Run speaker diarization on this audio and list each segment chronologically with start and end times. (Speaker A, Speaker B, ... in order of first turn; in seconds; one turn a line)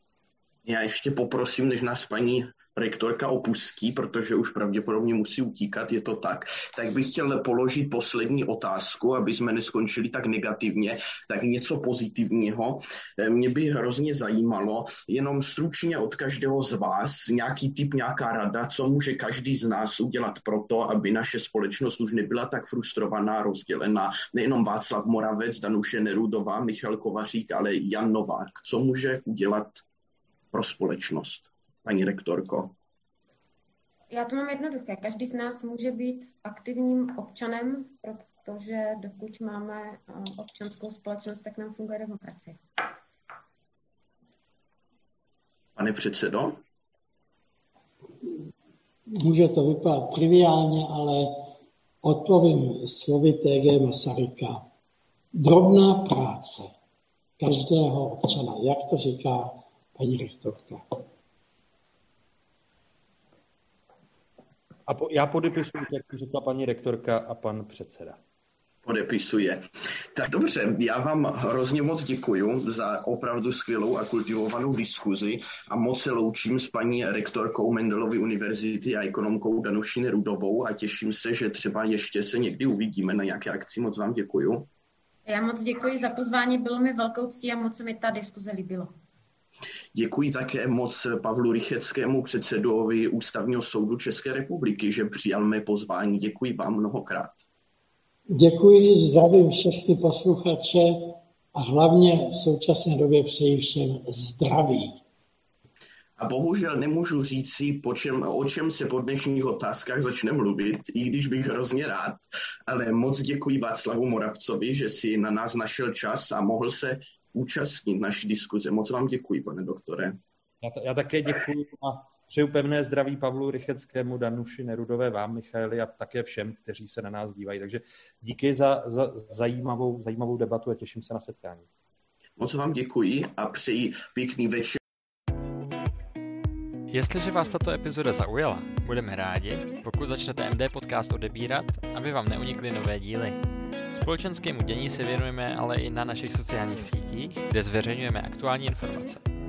Speaker A: 0.6-29.8
Speaker A: 30.5-32.7
Speaker B: 34.1-42.6
Speaker A: 45.8-46.6
Speaker C: 49.2-51.5
Speaker C: 52.0-54.6
Speaker C: 55.4-56.7
Speaker C: 57.4-61.0
Speaker D: 64.9-68.2
Speaker A: 68.8-84.7
Speaker B: 85.2-89.0
Speaker A: 89.9-97.5
Speaker C: 98.3-105.0
Speaker A: 106.2-120.2
Speaker D: 120.6-131.7
Speaker A: 132.4-134.8
Speaker E: 136.9-143.4
Speaker E: 143.9-149.2